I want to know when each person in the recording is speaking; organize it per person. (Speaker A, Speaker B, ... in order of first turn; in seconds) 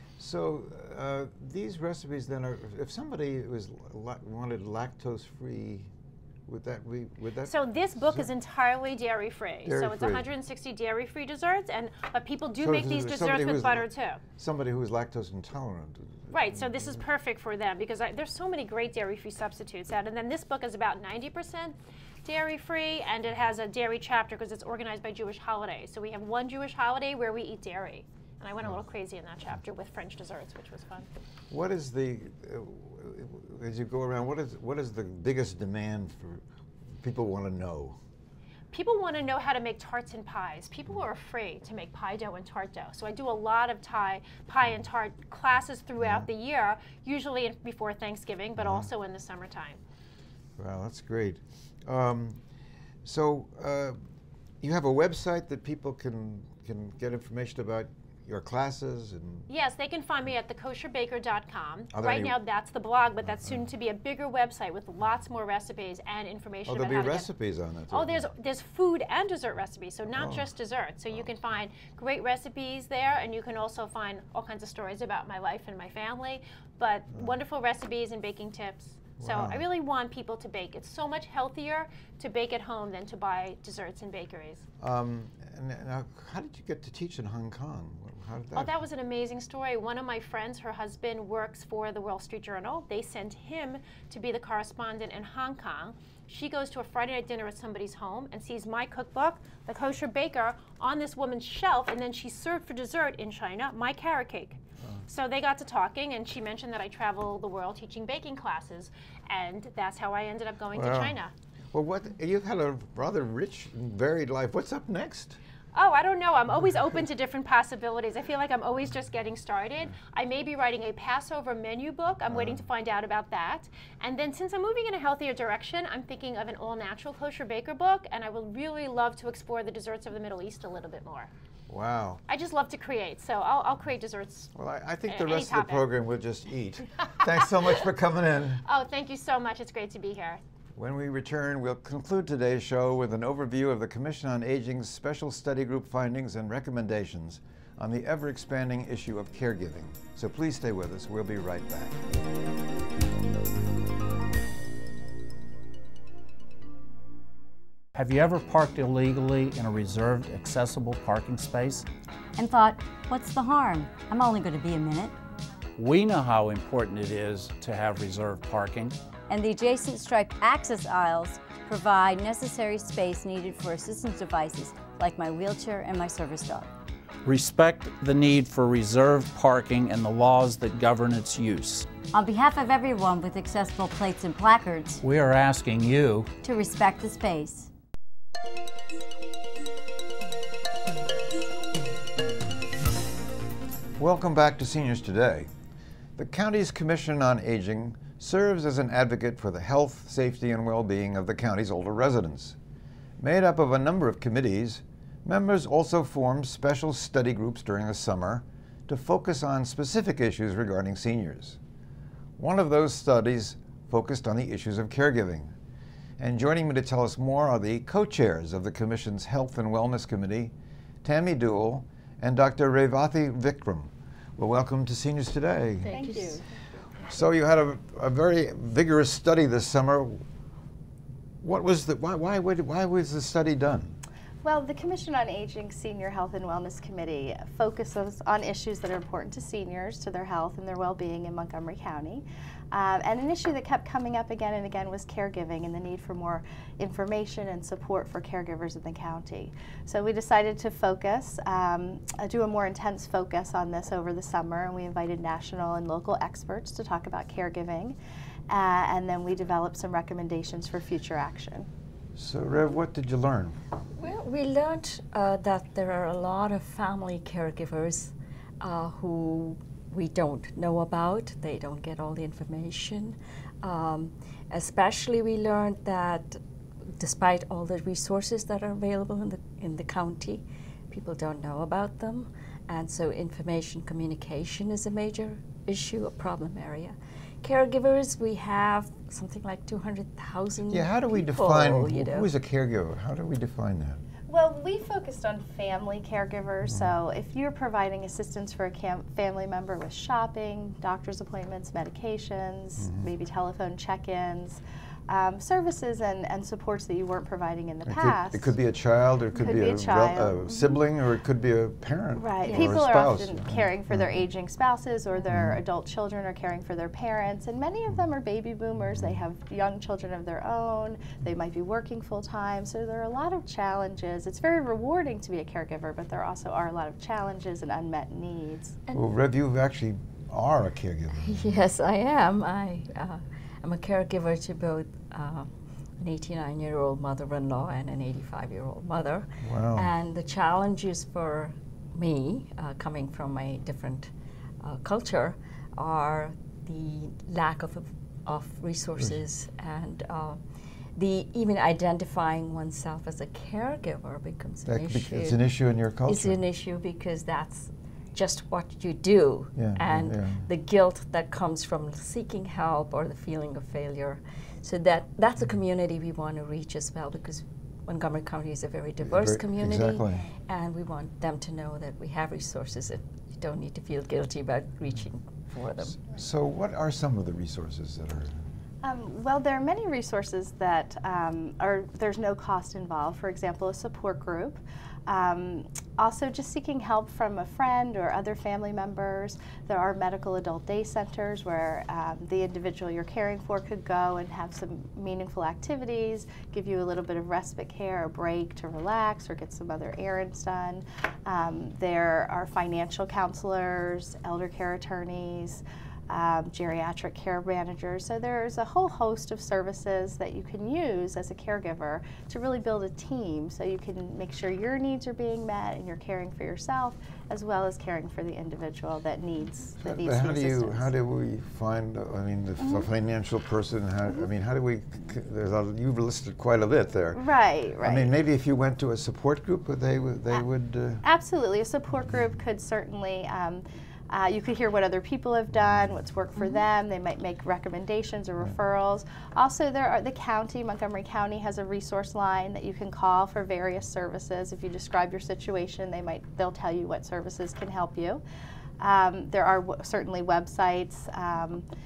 Speaker A: 0.2-5.9, 6.5-8.3, 9.6-10.3, 12.6-17.0, 31.5-36.4, 37.0-38.0, 46.0-46.3, 48.6-48.9, 50.6-52.4, 53.0-54.0, 54.6-59.5, 61.9-62.4, 66.7-68.3, 70.2-70.5, 79.2-79.7, 84.8-88.8, 110.7-111.2, 111.7-115.4, 122.3-122.6, 131.7-132.2, 134.5-138.6, 140.8-152.0, 194.0-195.5, 196.2-202.6, 203.2-211.6, 212.4-215.5, 216.2-225.9, 227.1-230.2, 231.4-234.0, 262.1-263.6, 290.7-294.0, 307.9-314.2, 315.3-315.6, 328.9-331.6, 339.4-339.9, 354.7-356.4, 359.6-360.5, 369.0-370.2, 375.9-378.4, 419.8-427.2, 427.8-431.0
Speaker B: 7.5-14.2, 16.3-31.1, 38.7-49.8, 59.5-67.3, 67.9-84.7, 88.5-111.3, 115.7-131.3, 132.3-134.5, 135.1-135.9, 138.6-140.4
Speaker C: 157.9-161.9, 165.8-168.9, 177.2-181.9, 185.0-186.3
Speaker D: 162.4-165.2, 169.3-176.7, 182.1-185.0, 186.4-187.7
Speaker E: 225.9-226.4, 264.0-276.4, 277.0-292.3, 312.4-312.9, 331.2-350.4, 350.9-355.4, 356.1-376.0
Speaker F: 225.9-226.4, 234.4-258.0, 258.5-261.7, 294.3-308.5, 309.3-310.8, 312.1-328.8, 378.8-420.9, 427.1-428.1, 431.0-448.2, 448.8-451.6